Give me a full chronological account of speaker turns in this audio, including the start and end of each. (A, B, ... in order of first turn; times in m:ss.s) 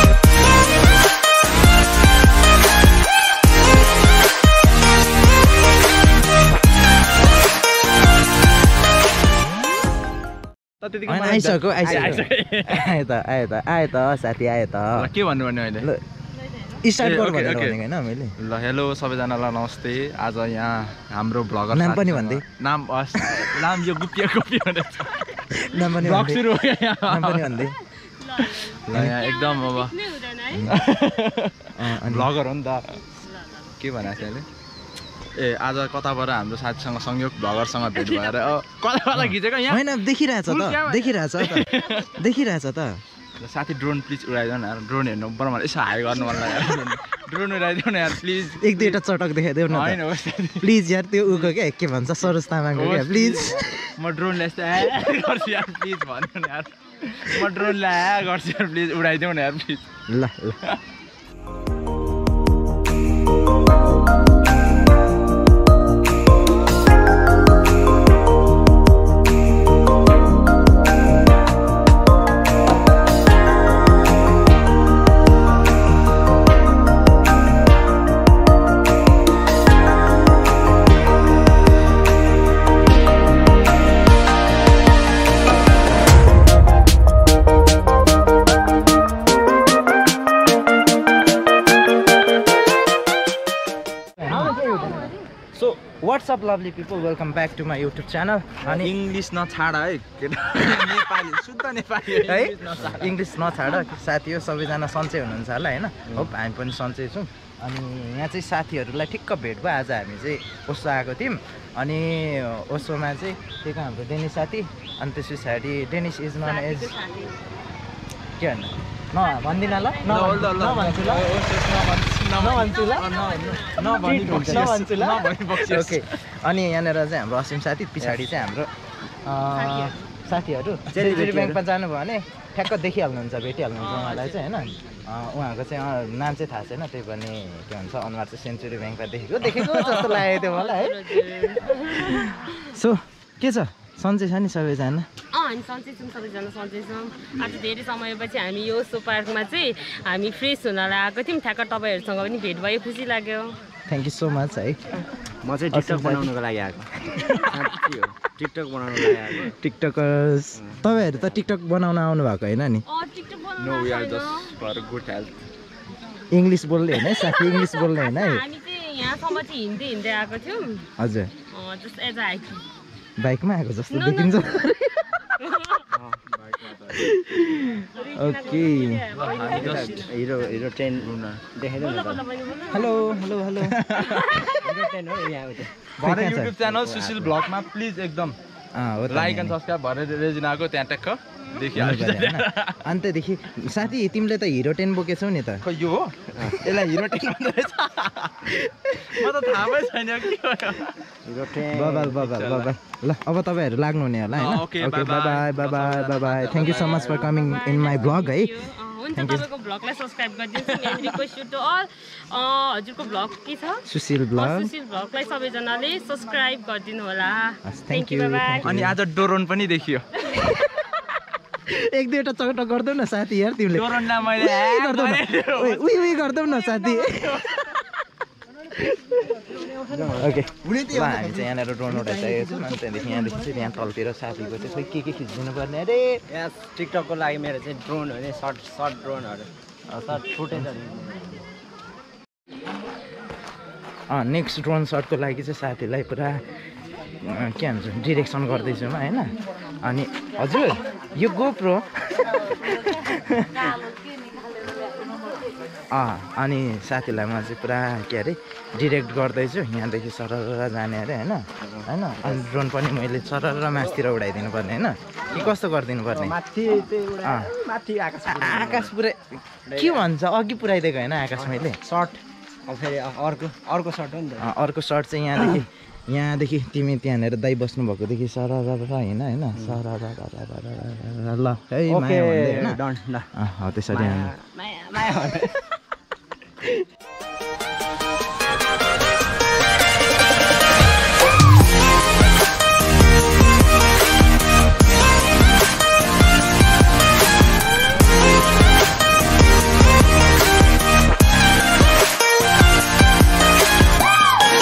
0:10.8-0:12.9 A
0:11.1-0:15.1 B
0:15.0-0:15.9 A
0:16.8-0:18.4 B
0:17.0-0:17.8 A
0:18.4-0:27.7 A
0:21.7-0:22.4 B
0:23.2-0:23.6 B
0:25.6-0:26.5 B
0:27.1-0:27.8 B
0:28.0-0:30.7 C
0:28.4-0:30.0 A
0:28.9-0:29.2 B
0:30.5-0:30.9 B
0:30.7-0:33.0 A
0:31.7-0:32.3 B
0:33.2-0:34.3 C
0:33.8-0:34.5 A
0:35.4-0:39.9 A
0:37.9-0:38.4 C
0:39.2-0:43.0 B
0:40.4-0:42.1 A
0:43.4-0:49.0 A
0:48.6-0:53.8 B
0:49.7-0:50.7 A
0:51.3-0:51.5 A
0:52.7-0:59.9 A
1:00.1-1:00.6 B
1:34.2-1:34.6 B
1:34.3-1:35.1 D
1:34.6-1:35.0 C
1:35.5-1:39.0 B
1:38.6-1:43.2 A
1:42.1-1:57.0 B
1:56.4-1:57.5 C
1:58.4-2:01.3 B
1:59.1-2:00.6 C
2:00.0-2:06.2 A
2:02.4-2:04.0 C
2:02.5-2:02.8 B
2:03.8-2:04.7 D
2:04.1-2:25.1 B
2:08.0-2:08.3 D
2:09.4-2:10.1 C
2:10.9-2:11.6 D
2:13.8-2:14.6 C
2:19.7-2:22.3 C
2:25.3-2:33.6 C
2:33.9-2:34.8 B
2:35.4-2:39.6 D
2:35.7-2:36.3 B
2:37.1-2:37.6 B
2:39.4-2:42.8 B
2:40.6-2:41.5 D
2:42.9-2:44.6 C
2:43.6-2:45.3 A
2:46.3-2:48.4 B
2:46.9-2:50.9 C
2:51.0-2:51.3 B
2:51.5-2:52.6 C
2:53.2-2:55.2 B
2:53.9-2:54.7 C
2:55.3-2:55.9 C
2:55.9-2:56.8 D
2:56.9-2:59.0 B
2:57.9-3:00.6 C
2:59.1-3:00.2 A
2:59.5-3:02.3 D
3:01.0-3:01.4 A
3:01.8-3:03.4 C
3:02.7-3:04.0 B
3:03.5-3:04.4 A
3:04.0-3:04.5 C
3:04.6-3:05.9 D
3:06.0-3:08.4 A
3:06.0-3:06.6 B
3:06.6-3:07.4 D
3:08.8-3:09.6 B
3:09.1-3:12.9 A
3:11.7-3:15.7 B
3:15.6-3:21.0 A
3:16.3-3:16.6 D
3:21.2-3:22.3 D
3:21.7-3:28.6 B
3:22.2-3:22.7 A
3:24.3-3:27.2 A
3:26.6-3:38.6 C
3:29.1-3:29.5 B
3:30.6-3:31.3 A
3:33.9-3:34.7 B
3:37.6-3:39.0 B
3:38.6-3:40.1 A
3:41.7-3:47.8 B
3:43.7-3:47.6 A
3:49.6-3:50.4 D
3:50.2-3:56.2 B
3:56.3-3:59.5 D
3:59.9-4:00.7 B
4:00.1-4:01.4 D
4:04.1-4:06.4 B
4:07.2-4:13.9 B
4:15.9-4:26.4 B
4:21.6-4:22.5 D
4:26.1-4:28.9 D
4:27.2-4:27.5 B
4:28.3-4:31.8 B
4:29.7-4:30.1 D
4:31.4-4:34.5 D
4:34.4-4:42.8 B
4:41.9-4:43.3 D
4:43.4-4:44.3 B
4:43.9-4:45.7 D